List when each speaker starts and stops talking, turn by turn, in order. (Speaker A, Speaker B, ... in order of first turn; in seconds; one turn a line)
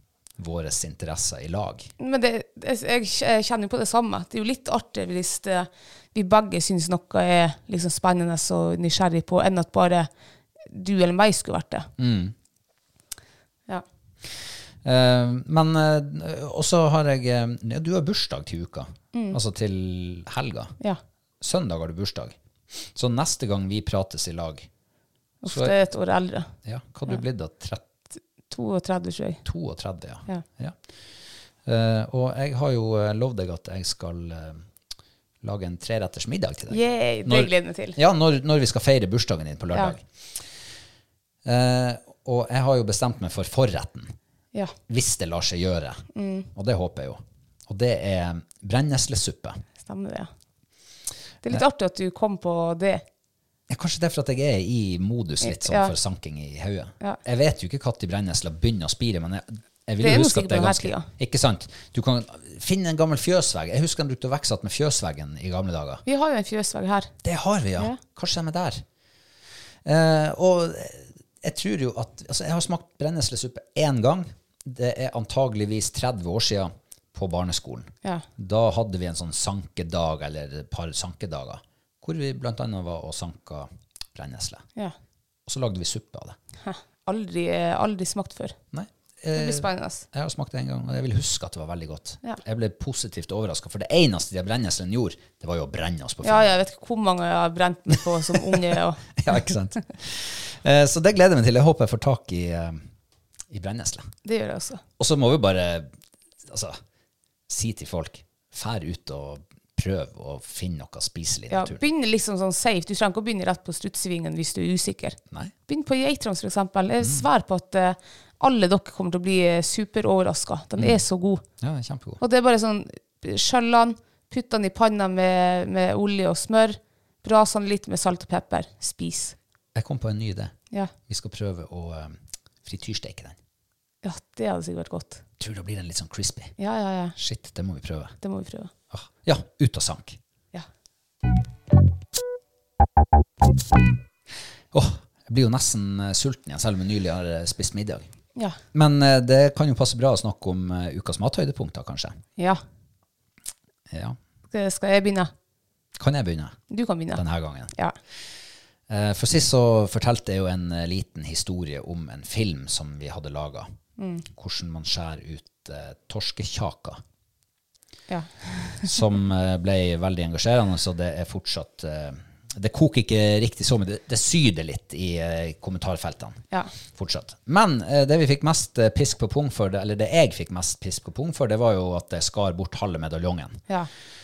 Speaker A: 0.4-1.9
Speaker B: 2.0-10.1
Speaker B: 10.7-11.9
Speaker A: 12.0-12.3
Speaker A: 14.8-20.7
Speaker B: 19.1-19.4
Speaker A: 21.4-24.7
Speaker B: 25.4-26.5
Speaker A: 25.5-25.7
Speaker A: 26.6-27.8
Speaker B: 28.5-29.4
Speaker A: 29.4-30.8
Speaker A: 31.6-34.6
Speaker A: 35.4-40.4
Speaker B: 36.7-38.0
Speaker A: 41.4-44.1
Speaker A: 44.9-49.6
Speaker B: 46.1-46.5
Speaker B: 49.8-50.3
Speaker B: 51.4-53.0
Speaker A: 53.7-66.0
Speaker B: 55.4-55.9
Speaker B: 60.0-61.1
Speaker B: 66.0-67.1
Speaker A: 67.2-68.8
Speaker A: 69.8-84.6
Speaker A: 85.5-86.4
Speaker B: 86.6-88.5
Speaker A: 88.7-96.5
Speaker B: 89.3-90.0
Speaker B: 96.2-99.0
Speaker A: 97.9-98.6
Speaker A: 99.2-102.8
Speaker A: 103.5-104.1
Speaker B: 104.2-104.8
Speaker A: 105.0-105.9
Speaker A: 106.5-106.8
Speaker A: 107.5-111.8
Speaker B: 111.5-121.4
Speaker A: 117.0-117.2
Speaker A: 120.8-121.0
Speaker A: 121.6-122.2
Speaker B: 122.2-129.3
Speaker A: 129.7-130.5
Speaker A: 131.1-133.4
Speaker B: 134.0-135.2
Speaker A: 135.4-136.5
Speaker B: 136.6-137.1
Speaker A: 137.2-138.2
Speaker B: 138.2-138.7
Speaker A: 138.9-140.2
Speaker A: 144.7-148.1
Speaker A: 148.7-152.2
Speaker A: 153.9-154.2
Speaker B: 154.5-155.3
Speaker A: 156.0-156.6
Speaker B: 156.7-157.2
Speaker A: 157.1-157.7
Speaker A: 158.9-163.7
Speaker B: 164.0-164.2
Speaker A: 164.3-167.0
Speaker B: 168.1-168.9
Speaker A: 168.8-176.4
Speaker A: 176.9-183.6